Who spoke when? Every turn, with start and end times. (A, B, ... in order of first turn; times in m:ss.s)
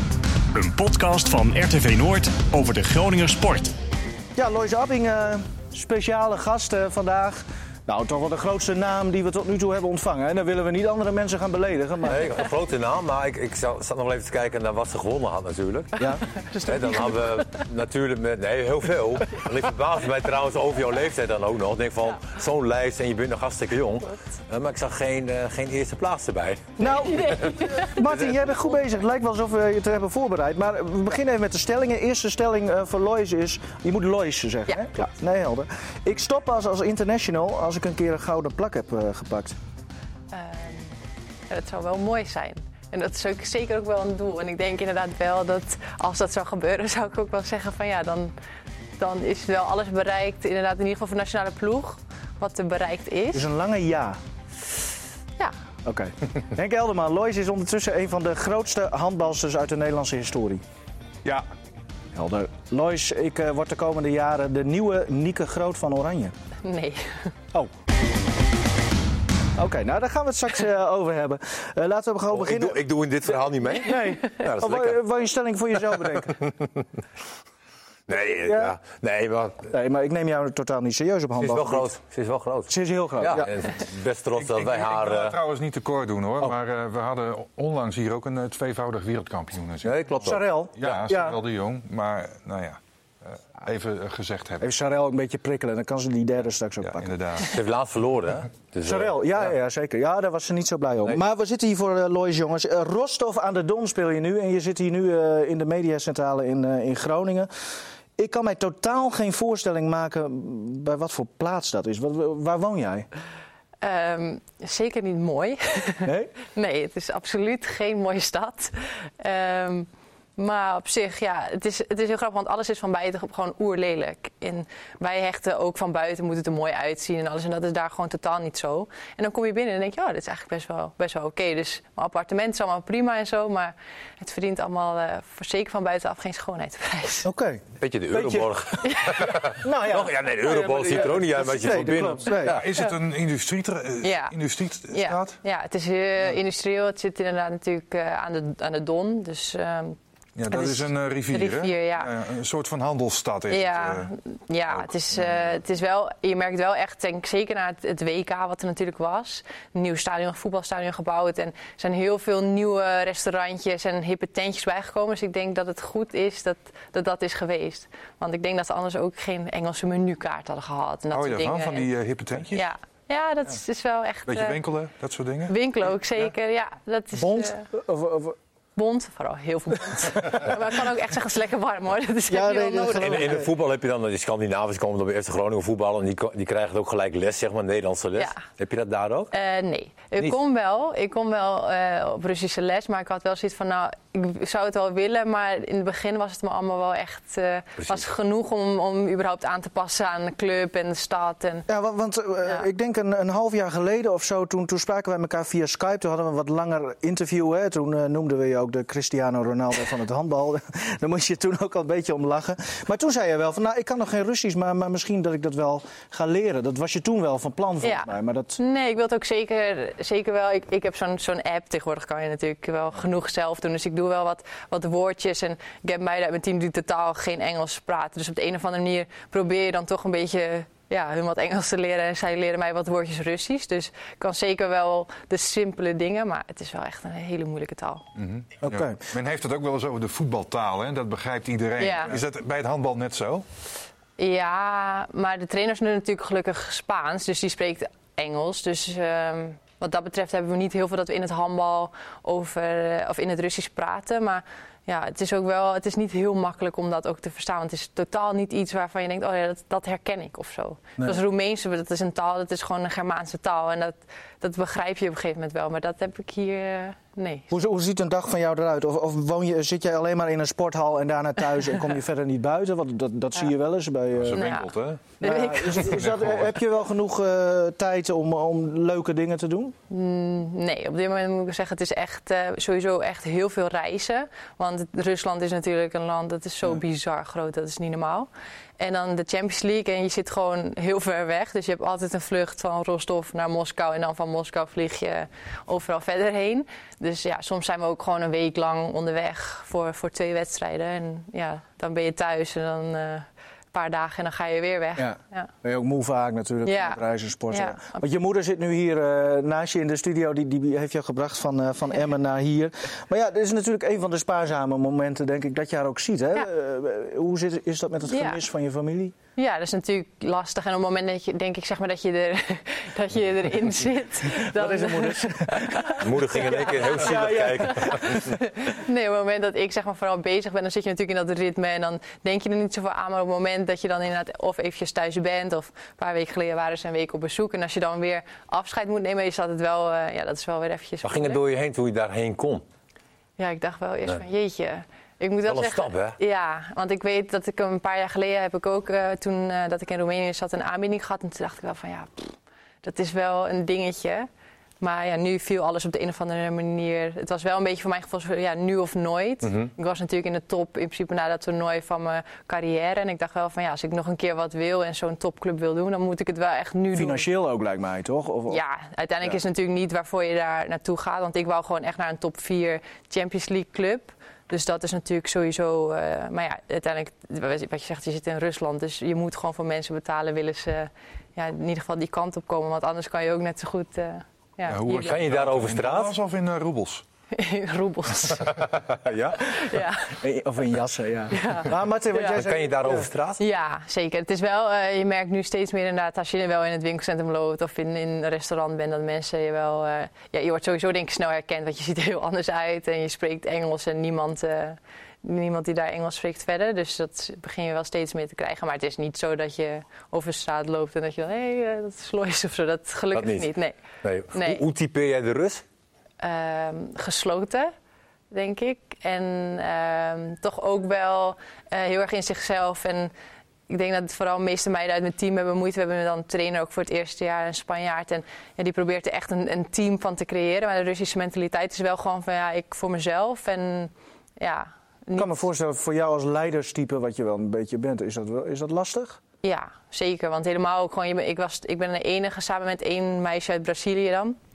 0:00.5-0:03.7 A
0:04.4-0:12.4 B
0:12.1-0:16.0 C
0:16.0-0:17.6 D
0:16.6-0:26.8 C
0:26.8-0:39.6 B
0:26.8-0:28.0 D
0:40.3-0:41.0 D
0:41.5-0:48.3 D
0:49.0-0:53.5 D
0:53.3-0:54.2 B
0:55.8-1:00.6 B
1:02.1-1:06.3 B
1:06.6-1:07.3 D
1:09.6-1:12.8 B
1:12.3-1:15.0 C
1:13.8-1:16.4 B
1:16.0-1:16.8 C
1:18.1-1:19.7 C
1:18.4-1:18.8 B
1:19.7-1:21.9 B
1:21.4-1:25.4 C
1:22.7-1:23.5 B
1:24.4-1:30.0 E
1:29.8-1:31.0 C
1:30.2-1:31.4 B
1:30.8-1:34.7 E
1:34.6-1:37.1 B
1:36.8-1:37.6 E
1:37.5-1:39.2 C
1:38.8-1:47.5 B
1:48.2-1:53.1 B
1:53.8-2:17.3 D
1:56.0-1:56.3 B
2:17.2-2:22.6 B
2:17.8-2:22.6 C
2:18.8-2:19.3 D
2:22.4-2:25.4 E
2:24.0-2:24.4 D
2:24.9-2:30.0 D
2:30.4-2:34.1 E
2:30.5-2:32.1 D
2:33.5-2:51.9 D
2:34.7-2:35.6 E
2:51.1-2:52.7 E
2:52.5-2:54.6 D
2:54.3-2:55.5 E
2:55.5-2:57.7 D
2:57.2-2:58.4 B
2:58.8-3:03.3 D
3:02.3-3:03.5 B
3:03.0-3:09.3 C
3:09.3-3:21.7 D
3:21.7-3:38.6 B
3:37.8-3:58.0 D
3:58.2-4:03.4 E
3:58.6-3:59.0 B
4:01.8-4:02.2 D
4:04.2-4:27.5 D
4:27.5-4:34.6 B
4:34.2-4:35.2 E
4:34.4-4:34.7 D
4:35.2-4:36.0 D
4:35.2-4:39.8 B
4:35.8-4:36.5 E
4:39.9-5:05.5 D
5:05.0-5:19.2 B
5:06.6-5:08.0 D
5:18.1-5:18.4 D
5:19.4-5:41.4 D
5:24.3-5:28.3 B
5:26.0-5:28.2 C
5:41.0-5:42.6 C
5:43.4-5:54.3 D
5:45.5-5:46.2 C
5:54.8-6:07.3 D
6:06.9-6:08.6 B
6:08.5-6:25.2 D
6:24.7-6:27.0 E
6:24.8-6:26.2 C
6:27.3-6:28.6 D
6:28.4-6:29.7 C
6:29.5-6:30.2 D
6:30.2-6:33.1 B
6:31.3-6:32.4 D
6:32.3-6:33.4 C
6:33.4-6:53.8 D
6:53.2-6:53.5 C
6:54.0-6:55.6 C
6:54.3-6:54.6 D
6:56.2-6:57.7 D
6:58.3-7:03.1 D
7:03.7-7:15.4 D
7:15.2-7:19.2 B
7:19.4-7:24.4 D